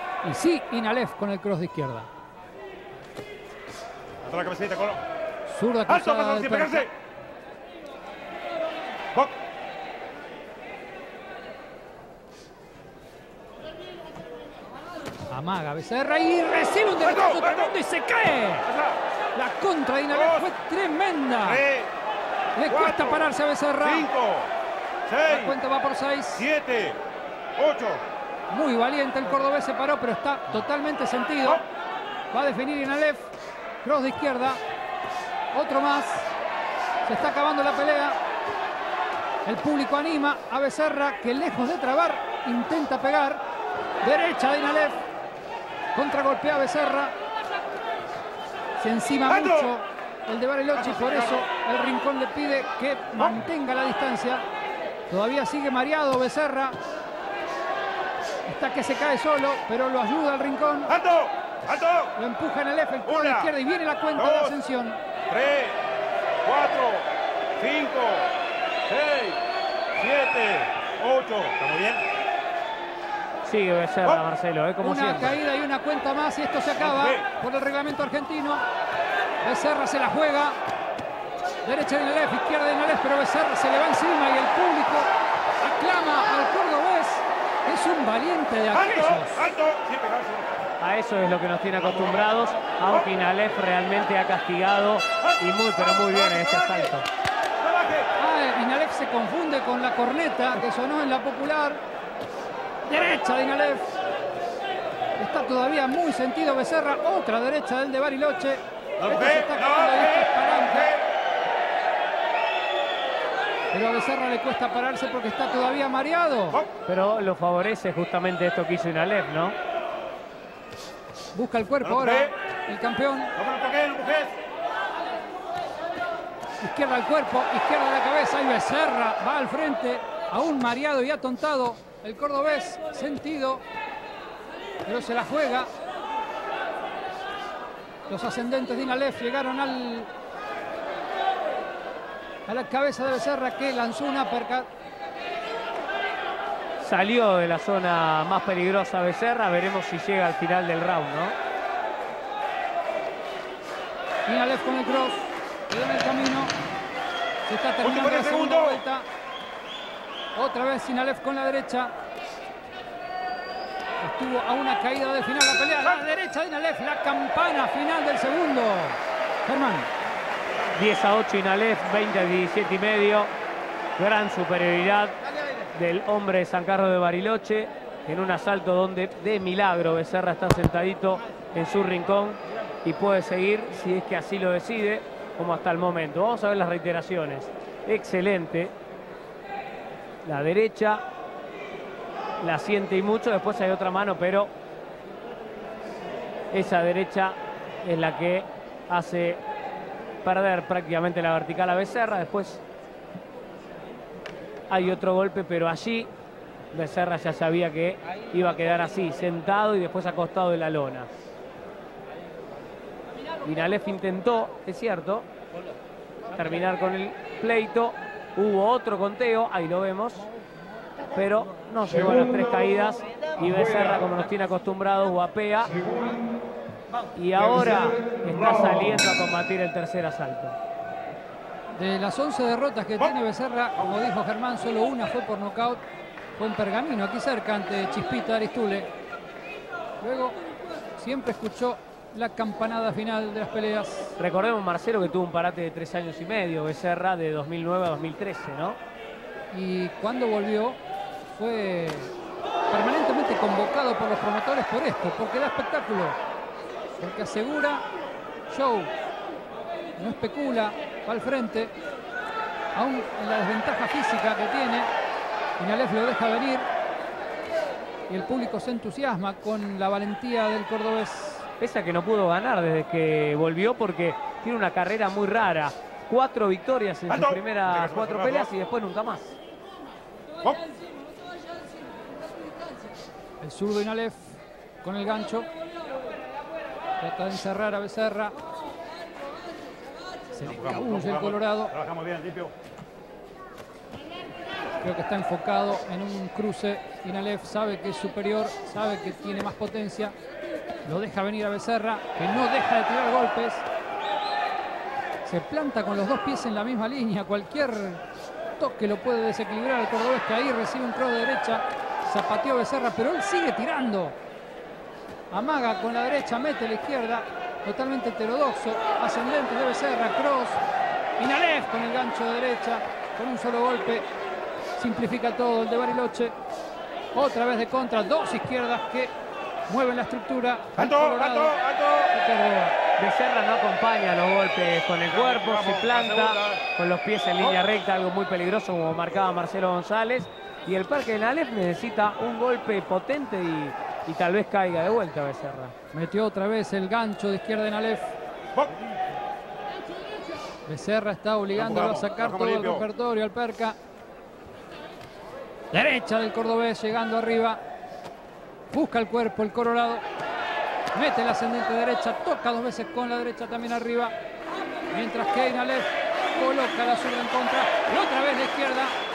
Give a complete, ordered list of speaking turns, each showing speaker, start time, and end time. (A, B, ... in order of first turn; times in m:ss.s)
0:00.2-0:02.1 A
0:04.2-0:05.0 B
0:05.5-0:06.9 A
0:05.9-0:06.9 B
0:15.3-0:18.7 A
0:17.0-0:17.7 B
0:18.7-0:19.0 B
0:19.3-0:21.6 A
0:20.1-0:20.5 B
0:21.4-0:21.9 B
0:22.6-0:24.1 A
0:22.7-0:24.5 B
0:25.1-0:25.5 B
0:25.3-0:26.5 A
0:26.4-0:27.0 B
0:27.6-0:28.0 B
0:28.5-0:31.6 A
0:32.3-0:33.3 A
0:33.8-0:34.6 A
0:35.5-0:36.3 A
0:37.0-0:38.2 A
0:39.4-0:43.4 A
0:44.0-0:45.0 A
0:46.0-0:47.1 A
0:48.8-0:54.5 A
0:49.3-0:49.7 B
0:50.8-0:51.4 B
0:55.1-0:56.8 A
0:58.4-1:00.9 A
1:00.9-1:02.1 B
1:02.2-1:05.0 A
1:03.1-1:03.5 B
1:04.2-1:04.6 B
1:05.3-1:05.8 B
1:06.4-1:08.3 B
1:08.9-1:09.4 B
1:10.0-1:12.0 B
1:13.4-1:15.4 C
1:14.8-1:18.6 A
1:16.8-1:17.2 B
1:19.4-1:20.6 A
1:21.6-1:29.5 A
1:28.7-1:30.5 B
1:30.8-1:37.1 C
1:31.9-1:32.3 B
1:35.4-1:36.9 B
1:37.6-1:38.1 B
1:38.2-1:41.8 A
1:42.9-1:43.9 A
1:45.2-1:50.9 A
1:49.0-1:51.0 B
1:53.7-1:56.6 A
1:56.9-1:59.6 C
2:01.3-2:03.3 A
2:01.8-2:02.3 B
2:03.4-2:04.4 B
2:06.6-2:13.6 A
2:14.8-2:15.7 A
2:18.1-2:20.1 A
2:22.5-2:24.7 A
2:26.8-2:31.4 C
2:34.3-2:36.5 A
2:37.4-2:39.1 A
2:37.8-2:38.8 B
2:40.4-2:41.9 A
2:44.0-2:49.9 A
2:50.7-2:53.3 C
2:54.0-2:55.2 C
2:55.7-3:08.7 C
3:10.2-3:11.0 C
3:12.4-3:14.5 C
3:16.5-3:19.4 C
3:20.2-3:22.6 C
3:24.7-3:26.1 C
3:26.7-3:31.1 C
3:33.4-3:35.3 C
3:36.3-3:40.3 C
3:41.1-3:46.2 C
3:47.2-3:50.6 C
3:51.8-3:55.8 A
3:56.4-3:58.9 A
4:00.0-4:00.4 A
4:01.0-4:04.2 A
4:04.2-4:08.8 C
4:09.5-4:10.8 A
4:11.3-4:12.1 A
4:12.7-4:16.2 A
4:17.0-4:17.8 A
4:18.5-4:18.9 A
4:20.0-4:21.7 A
4:22.8-4:24.9 A
4:25.6-4:26.7 A
4:28.1-4:31.5 A
4:31.6-4:39.4 C
4:37.1-4:38.5 B
4:43.4-4:45.5 A
4:47.0-4:48.4 A
4:50.3-4:51.8 A
4:50.4-4:52.5 B
4:54.8-5:00.2 A
5:00.8-5:03.7 A
5:05.2-5:08.0 A
5:08.6-5:14.2 A
5:15.3-5:20.6 A
5:21.2-5:24.1 A
5:24.8-5:26.4 A
5:27.1-5:29.1 A
5:29.7-5:31.6 A
5:30.8-5:32.1 B
5:32.1-5:32.8 A
5:33.0-5:45.7 C
5:35.1-5:36.6 B
5:45.9-5:48.2 A
5:50.7-5:53.8 A
5:51.5-5:52.8 B
5:55.7-5:57.6 A
5:58.7-6:00.0 A
6:00.9-6:04.2 A
6:04.9-6:09.0 A